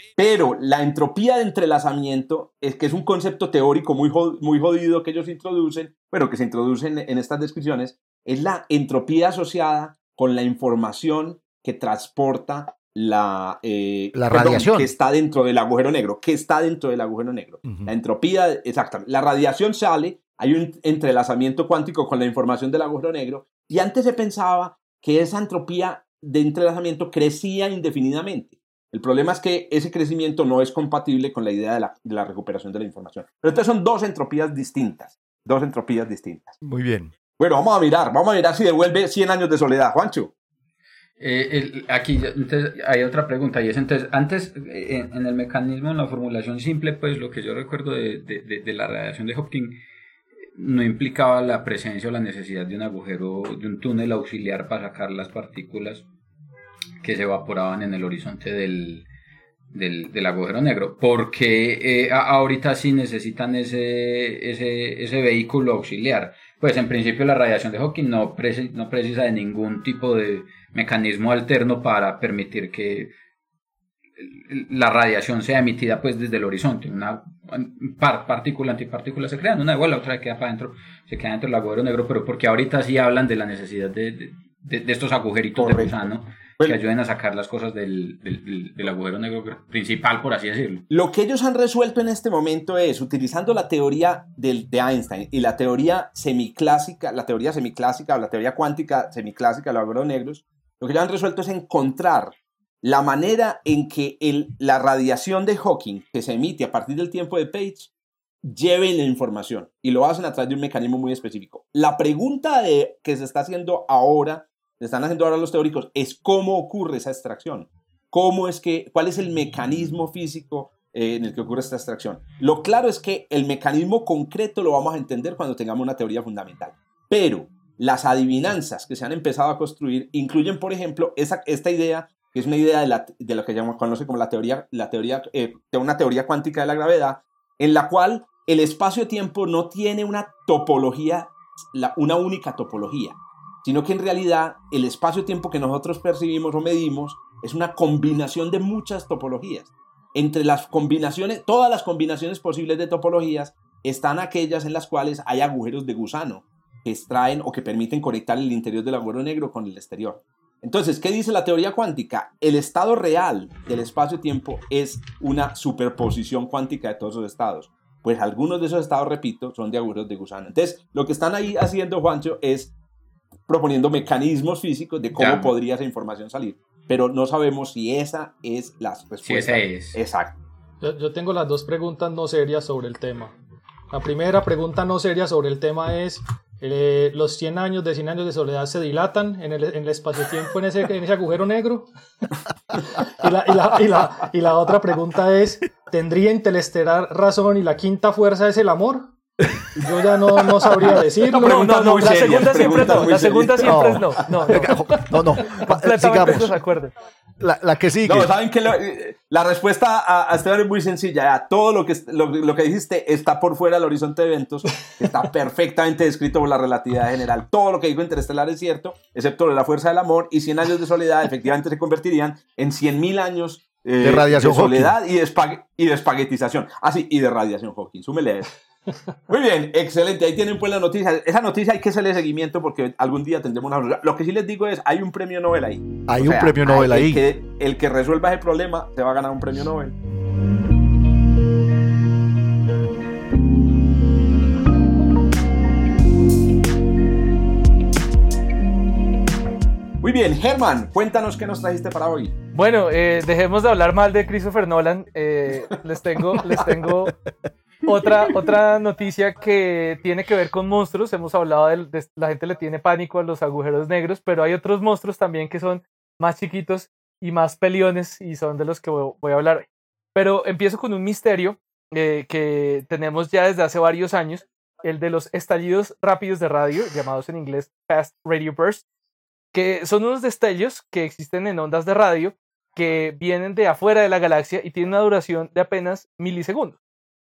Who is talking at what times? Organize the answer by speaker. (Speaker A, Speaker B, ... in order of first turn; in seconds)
Speaker A: 0.2-36.6, 37.4-40.3, 85.6-85.9, 90.9-107.9, 108.4-172.7, 173.5-180.4, 200.8-204.1, 208.0-228.5, 229.3-239.9, 250.0-252.3
Speaker B: 14.1-14.9, 17.6-17.9, 36.6-37.1, 203.6-206.5, 207.4-208.3, 224.0-224.9, 236.1-237.2
Speaker C: 41.2-49.7, 50.5-56.0, 57.0-59.0, 59.7-73.1, 74.2-90.8, 175.2-175.5, 179.2-180.0
Speaker D: 180.8-183.4, 183.9-191.9, 192.8-199.1, 199.7-203.0
Speaker E: 201.3-204.7, 205.5-206.9, 252.5-257.1, 257.9-278.8, 279.5-286.8